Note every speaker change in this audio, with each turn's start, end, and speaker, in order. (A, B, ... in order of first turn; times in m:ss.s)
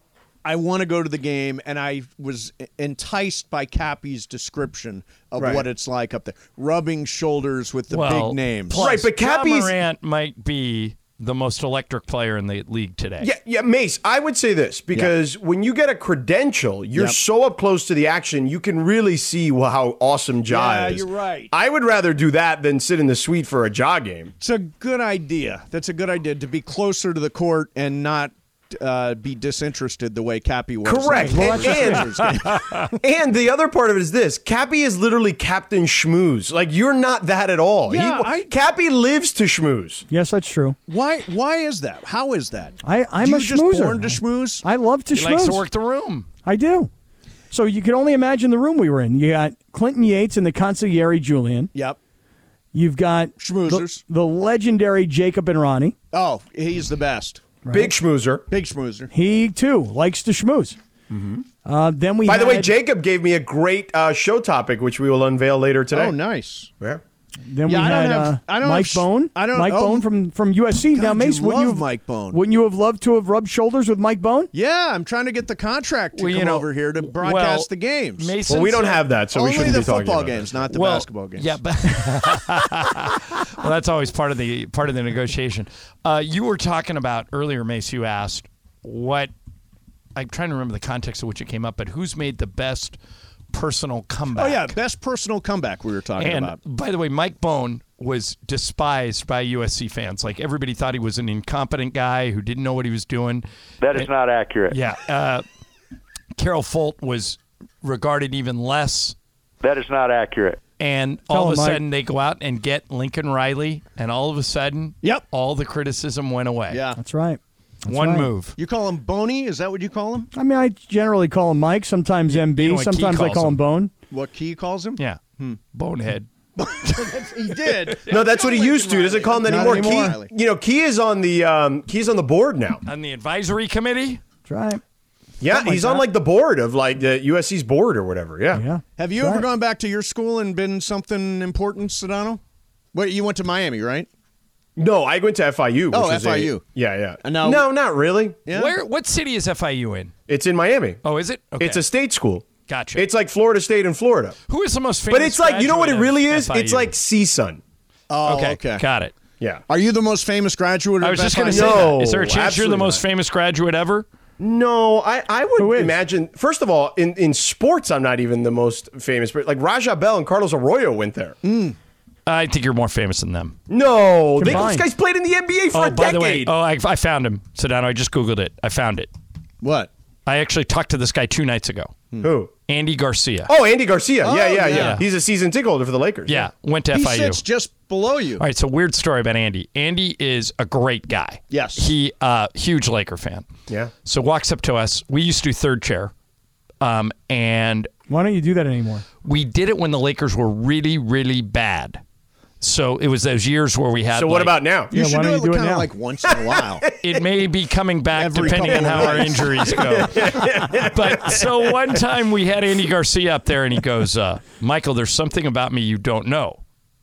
0:00.4-0:08.9 A
0:05.4-0:05.6 B
0:07.9-0:13.3 C
0:08.8-0:09.8 B
0:13.2-0:24.3 B
0:20.5-0:21.5 A
0:24.4-0:32.9 A
0:30.8-0:32.3 B
0:31.1-0:32.0 D
0:33.0-0:40.0 B
0:37.9-0:38.5 A
0:40.1-0:40.8 D
0:40.9-0:44.6 A
0:42.8-0:45.6 D
0:45.1-0:46.3 C
0:46.4-0:46.9 D
0:47.5-0:51.7 D
0:52.7-0:55.9 D
0:53.4-0:54.0 A
0:56.1-0:57.4 A
0:57.6-0:57.9 D
0:57.7-0:58.4 B
0:58.5-0:59.1 A
0:59.1-1:00.8 D
1:01.1-1:01.4 B
1:01.6-1:02.7 D
1:02.2-1:06.2 B
1:05.9-1:06.7 A
1:07.5-1:14.5 D
1:07.6-1:10.1 A
1:10.9-1:12.4 A
1:14.5-1:18.4 A
1:16.1-1:19.0 C
1:18.5-1:20.6 B
1:19.3-1:21.6 A
1:20.7-1:29.3 C
1:30.1-1:33.0 C
1:33.5-1:34.8 C
1:34.3-1:36.6 A
1:36.2-1:44.1 C
1:43.8-1:44.8 E
1:44.7-1:45.4 C
1:46.4-1:49.1 C
1:49.6-1:50.6 E
1:50.8-1:56.8 C
1:51.3-1:51.8 D
1:56.7-1:57.0 A
1:57.0-1:58.3 D
1:57.9-1:58.6 C
1:58.6-2:00.3 A
2:00.3-2:03.9 D
2:02.3-2:03.6 C
2:04.1-2:05.6 A
2:05.0-2:06.3 C
2:06.6-2:10.3 A
2:06.8-2:08.2 C
2:08.1-2:12.8 B
2:09.4-2:10.1 D
2:12.8-2:14.2 C
2:14.5-2:14.8 D
2:15.4-2:18.6 B
2:15.5-2:16.0 D
2:18.5-2:19.4 D
2:19.0-2:22.4 A
2:22.9-2:24.1 A
2:24.8-2:28.4 B
2:25.9-2:26.6 A
2:27.2-2:27.7 A
2:28.4-2:28.8 A
2:28.5-2:30.1 C
2:30.3-2:31.0 B
2:31.0-2:31.8 C
2:31.6-2:34.4 B
2:32.7-2:33.1 C
2:34.5-2:36.9 C
2:35.1-2:37.6 B
2:38.1-2:38.8 A
2:38.2-2:39.1 C
2:39.7-2:42.0 A
2:41.0-2:44.0 C
2:41.4-2:43.0 B
2:44.4-2:51.4 B
2:45.6-2:46.0 D
2:51.4-2:51.8 A
2:52.2-2:53.6 C
2:53.7-2:56.5 B
2:54.4-2:54.8 D
2:55.7-2:59.1 C
2:59.6-2:59.9 A
3:00.2-3:01.9 C
3:02.2-3:02.5 B
3:02.7-3:03.5 C
3:03.5-3:06.5 B
3:04.2-3:05.0 A
3:04.7-3:05.1 C
3:06.3-3:07.4 C
3:06.9-3:08.4 A
3:08.4-3:13.4 C
3:11.5-3:11.9 A
3:14.0-3:16.1 C
3:16.8-3:17.9 C
3:18.1-3:19.0 D
3:19.2-3:22.0 C
3:22.6-3:24.6 C
3:24.1-3:24.9 B
3:24.9-3:26.8 A
3:24.9-3:25.9 D
3:26.3-3:26.9 B
3:27.0-3:36.6 C
3:28.1-3:30.0 A
3:28.6-3:32.0 B